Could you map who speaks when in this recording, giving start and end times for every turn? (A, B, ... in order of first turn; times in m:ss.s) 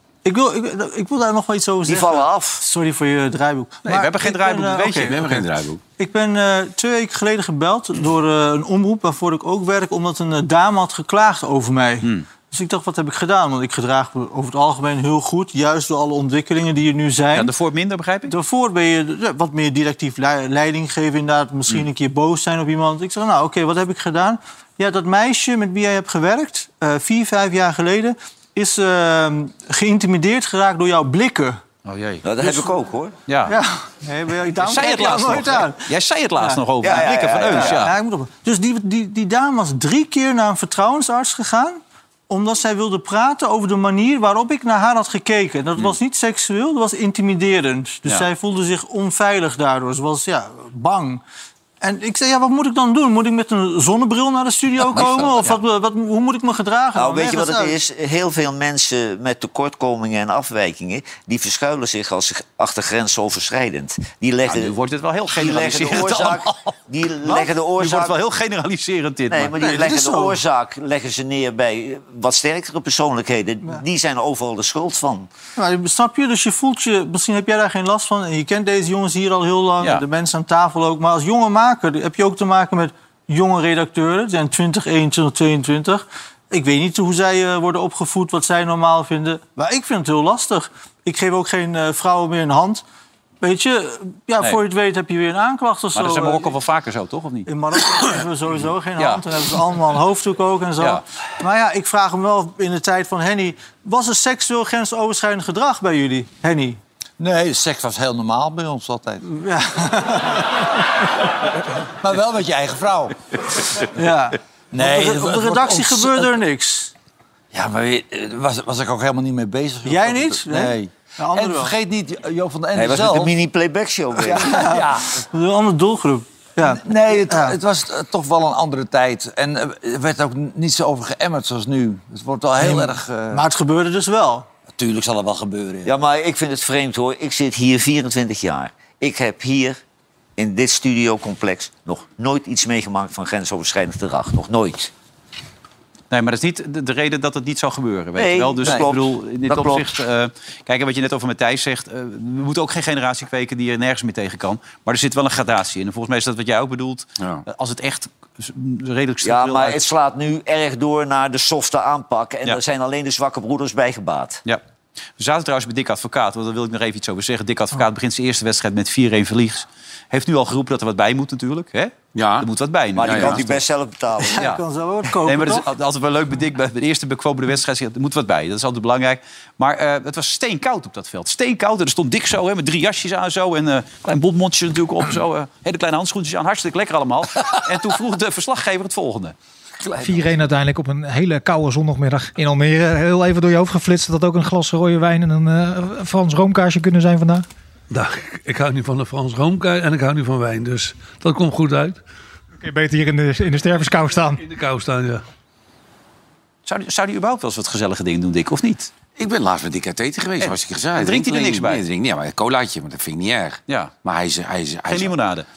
0:00.2-0:05.4 A
0:01.9-0:02.6 B
0:03.8-0:05.2 C
0:05.0-0:05.8 D
0:06.0-0:17.5 A
0:17.3-0:18.3 C
0:18.3-0:31.6 A
0:31.9-0:32.2 C
0:32.2-0:33.2 B
0:33.3-0:33.6 C
0:33.5-0:51.2 A
0:34.6-0:37.9 C
0:36.8-0:37.9 B
0:51.8-0:57.8 A
0:57.0-1:04.8 B
1:04.5-1:06.7 C
1:05.3-1:08.2 B
1:07.2-1:09.6 C
1:09.3-1:15.3 B
1:09.6-1:10.4 A
1:15.6-1:32.8 A
1:33.4-1:36.5 A
1:35.9-1:37.5 C
1:37.5-1:46.8 A
1:39.0-1:39.2 C
1:47.2-1:49.2 E
1:49.2-1:50.8 A
1:51.9-1:53.2 E
1:53.9-1:56.9 A
1:54.7-1:56.4 E
1:57.5-2:03.3 E
1:59.8-2:01.7 A
2:02.7-2:04.7 B
2:04.3-2:05.1 E
2:04.4-2:07.6 A
2:06.6-2:13.4 E
2:12.6-2:14.5 A
2:14.7-2:16.0 E
2:15.8-2:19.8 B
2:20.4-2:24.9 B
2:26.1-2:39.8 C
2:28.2-2:29.9 B
2:39.2-2:44.4 B
2:45.2-2:53.6 C
2:52.1-2:53.5 D
2:53.0-2:54.5 B
2:54.3-2:55.7 A
2:55.2-3:09.4 C
3:10.0-3:17.4 F
3:17.9-3:22.0 G
3:22.6-3:24.4 F
3:24.4-3:25.2 G
3:26.7-3:28.9 C
3:29.2-3:35.2 D
3:30.4-3:31.8 C
3:33.7-3:33.9 C
3:34.9-3:35.5 C